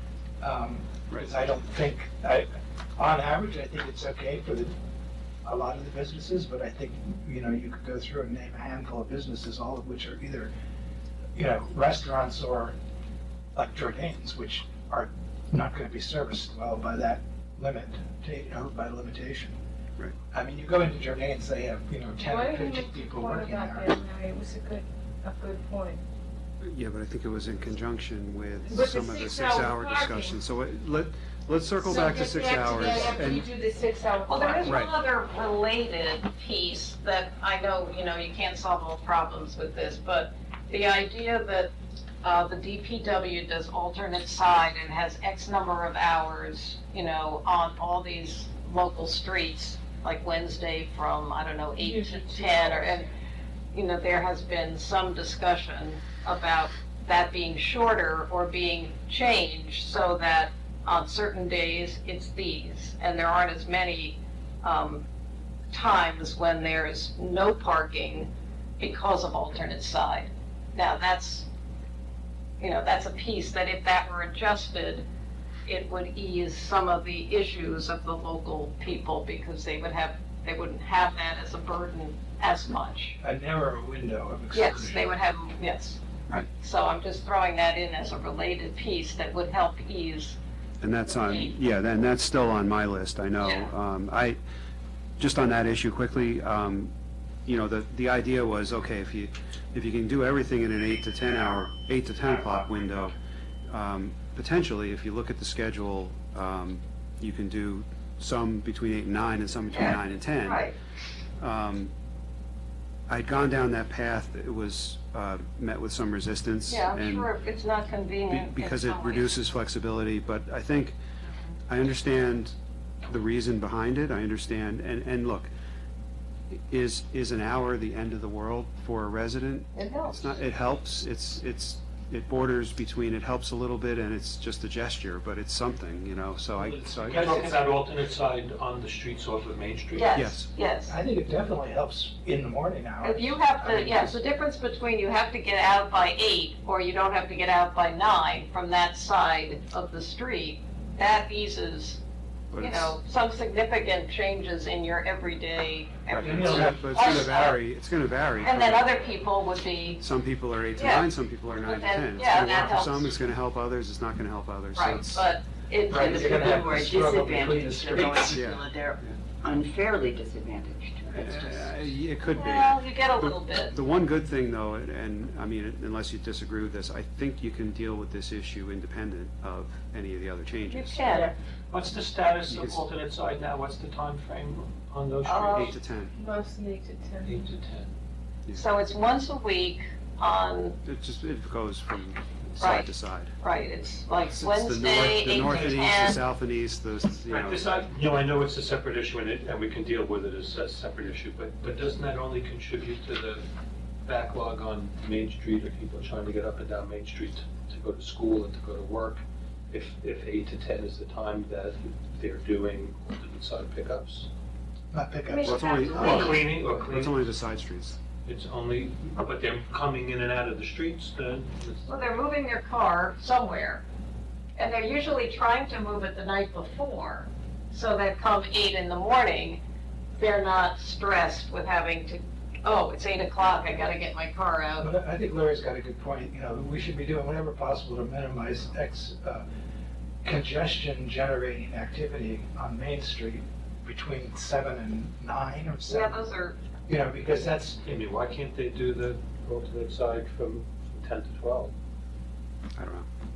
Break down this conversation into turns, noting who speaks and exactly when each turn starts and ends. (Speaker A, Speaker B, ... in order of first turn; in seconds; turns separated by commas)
Speaker A: 0.4-4.7, Speaker A: 5.4-10.5, Speaker A: 11.3-12.7, Speaker A: 13.5-19.6, Speaker A: 20.3-23.9, Speaker B: 22.2-26.0, Speaker C: 26.6-33.5, Speaker B: 28.6-30.4, Speaker B: 31.8-34.8, Speaker D: 34.3-41.7, Speaker C: 34.6-34.9, Speaker D: 42.2-53.1, Speaker B: 51.8-53.1, Speaker D: 53.7-65.0, Speaker D: 65.7-71.5, Speaker D: 72.6-75.1, Speaker D: 75.7-83.2, Speaker A: 83.2-85.0, Speaker D: 84.5-90.4, Speaker C: 90.8-94.4, Speaker D: 91.0-91.5, Speaker D: 93.4-93.7, Speaker C: 95.2-96.9, Speaker C: 97.5-103.2, Speaker C: 103.7-110.7, Speaker D: 109.7-110.8, Speaker C: 111.4-111.9, Speaker C: 113.1-117.3, Speaker D: 116.7-119.4, Speaker C: 118.3-121.0, Speaker C: 121.7-125.5, Speaker C: 126.5-137.5, Speaker D: 129.7-130.3, Speaker E: 136.6-140.2, Speaker D: 139.9-141.0, Speaker C: 140.1-140.5, Speaker A: 140.8-144.2, Speaker D: 143.0-152.0, Speaker C: 152.5-153.0, Speaker D: 152.6-157.6, Speaker C: 156.1-158.9, Speaker A: 156.2-156.8, Speaker D: 158.4-160.0, Speaker C: 160.0-165.2, Speaker D: 160.8-163.1, Speaker D: 164.7-166.6, Speaker A: 165.9-168.4, Speaker F: 166.0-171.8, Speaker C: 168.2-169.2, Speaker C: 171.1-181.1, Speaker D: 172.2-173.8, Speaker D: 180.7-181.3, Speaker E: 181.7-185.8, Speaker C: 182.4-182.8, Speaker D: 185.2-185.7, Speaker C: 185.5-186.1, Speaker B: 186.2-187.5, Speaker E: 187.2-187.9, Speaker D: 188.5-190.8, Speaker C: 190.8-193.3, Speaker D: 192.6-196.2, Speaker C: 194.3-197.6, Speaker E: 197.2-203.4, Speaker E: 204.0-214.3, Speaker A: 214.9-216.8, Speaker D: 215.3-216.4, Speaker C: 215.4-218.0, Speaker E: 215.9-217.3, Speaker E: 218.2-221.9, Speaker D: 221.8-223.8, Speaker D: 224.6-229.6, Speaker D: 230.2-234.9, Speaker A: 234.8-239.4, Speaker A: 240.2-246.2, Speaker D: 245.9-246.6, Speaker A: 246.9-247.8, Speaker E: 247.8-251.7, Speaker C: 252.8-253.1